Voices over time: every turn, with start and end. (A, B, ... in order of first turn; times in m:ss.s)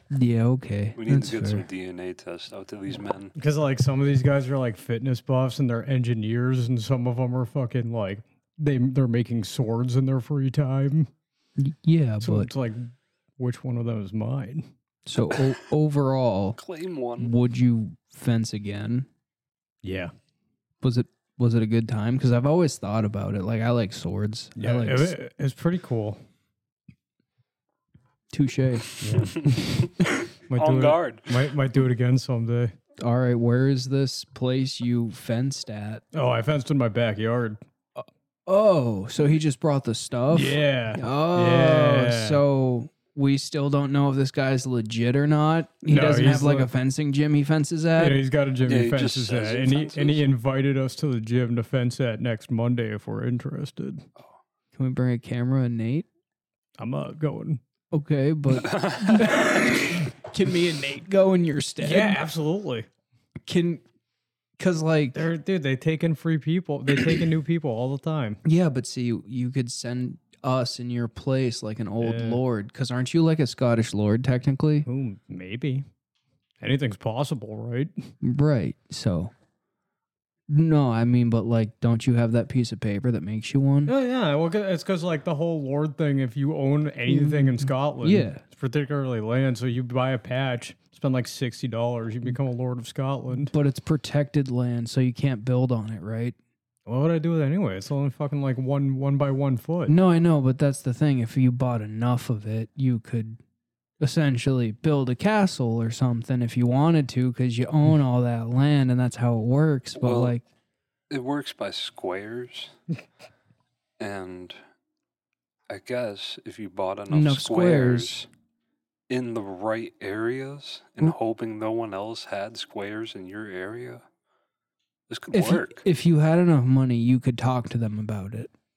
0:00.1-0:01.6 A
0:01.0-0:03.3 B
0:03.4-0:11.1 C
0:11.6-0:12.5 A
0:12.2-0:14.7 C
0:15.1-0:16.6 A
0:16.6-0:17.3 B
0:17.2-0:19.1 A
0:19.8-0:20.1 C
0:20.8-0:25.2 A
0:24.6-0:26.2 C
0:28.3-0:29.0 A
0:29.0-0:29.5 C
0:29.2-0:31.3 B
0:30.5-0:32.8 C
0:33.0-0:36.0 A
0:36.1-0:37.6 C
0:38.5-0:48.2 A
0:40.3-0:42.4 C
0:45.9-0:46.7 C
0:48.0-0:54.1 C
0:48.6-0:50.2 B
0:54.7-0:56.1 A
0:56.8-0:57.6 C
0:57.9-1:02.2 A
0:58.5-0:59.5 B
1:01.8-1:02.9 C
1:03.5-1:03.8 A
1:04.6-1:05.2 A
1:05.1-1:08.4 C
1:08.4-1:14.9 A
1:12.0-1:12.4 C
1:14.8-1:15.9 C
1:16.6-1:18.1 C
1:18.2-1:19.3 A
1:20.5-1:23.9 A
1:23.9-1:33.5 C
1:27.1-1:28.4 A
1:33.4-1:36.4 A
1:36.9-1:40.0 C
1:39.9-1:43.4 A
1:44.0-1:50.4 A
1:50.0-1:50.3 B
1:51.1-1:52.8 B
1:54.0-1:54.6 B
1:55.7-1:58.2 B
1:57.1-1:58.3 A
1:59.1-2:04.0 B
2:05.1-2:05.8 B
2:05.3-2:08.5 A